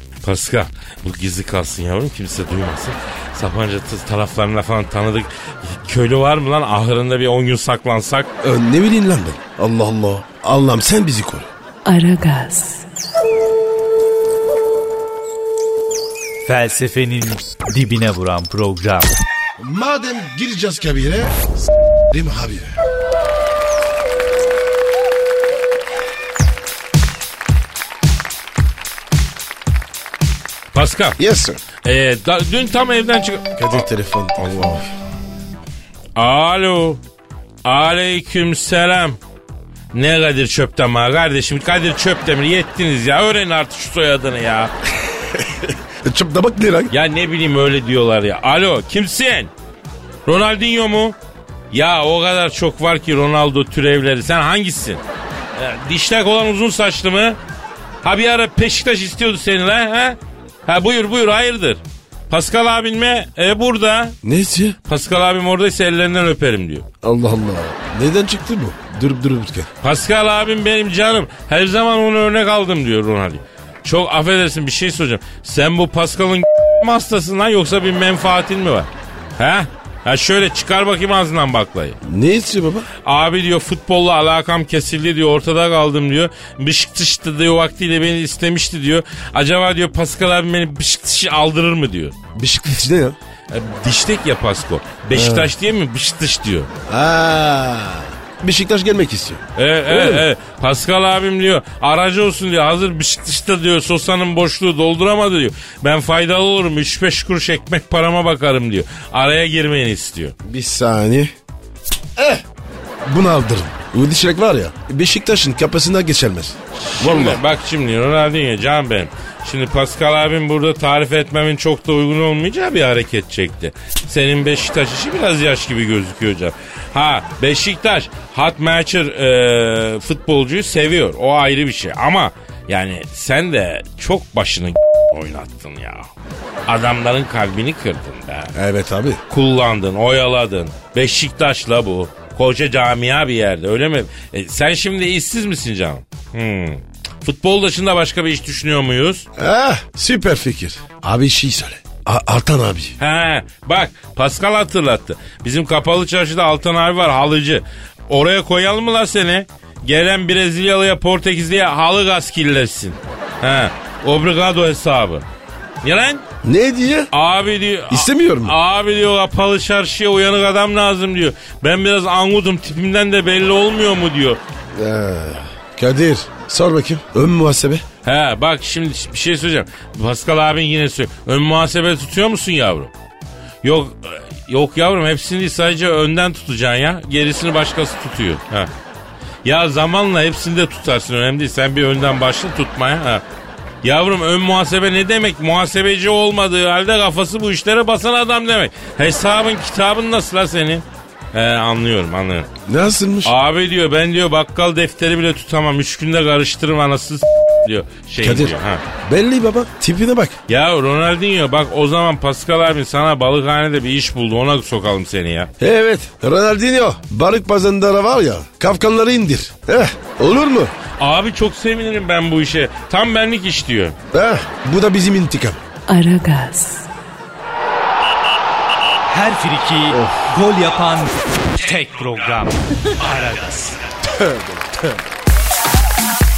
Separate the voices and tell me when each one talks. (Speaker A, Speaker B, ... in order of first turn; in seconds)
Speaker A: 0.2-8.3, 30.7-31.2, 31.8-33.5, 36.1-37.0, 37.6-39.2, 39.9-44.7, 46.9-49.5, 50.2-51.1, 51.7-55.0, 55.5-57.4, 58.0-64.2, 64.8-66.9, 69.8-82.0, 83.0-92.2, 93.5-96.7, 99.5-110.3, 116.8-136.1, 136.7-138.5, 139.3-149.2, 153.0-165.2, 165.8-166.2, 167.1-174.4, 178.0-182.9, 183.6-188.7, 189.4-193.2, 193.8-202.5, 203.2-208.8, 210.5-215.5, 221.0-224.0
Speaker B: 8.4-11.5, 19.6-21.4, 22.1-22.7, 31.2-31.6, 33.5-34.9, 46.0-46.9, 64.2-64.8, 67.0-69.7, 82.0-82.9, 92.3-93.2, 95.1-95.5, 96.9-100.2, 110.4-111.3, 112.2-112.4, 113.0-117.4, 138.5-139.2, 149.4-153.0, 166.4-167.1, 167.9-168.6, 174.7-177.8, 202.7-203.3, 208.2-210.4, 215.6-220.7, 224.1-225.6, 229.9-230.2, 234.1-235.0
Speaker C: 11.8-12.8, 225.9-226.9
Speaker D: 16.4-19.1, 229.1-233.8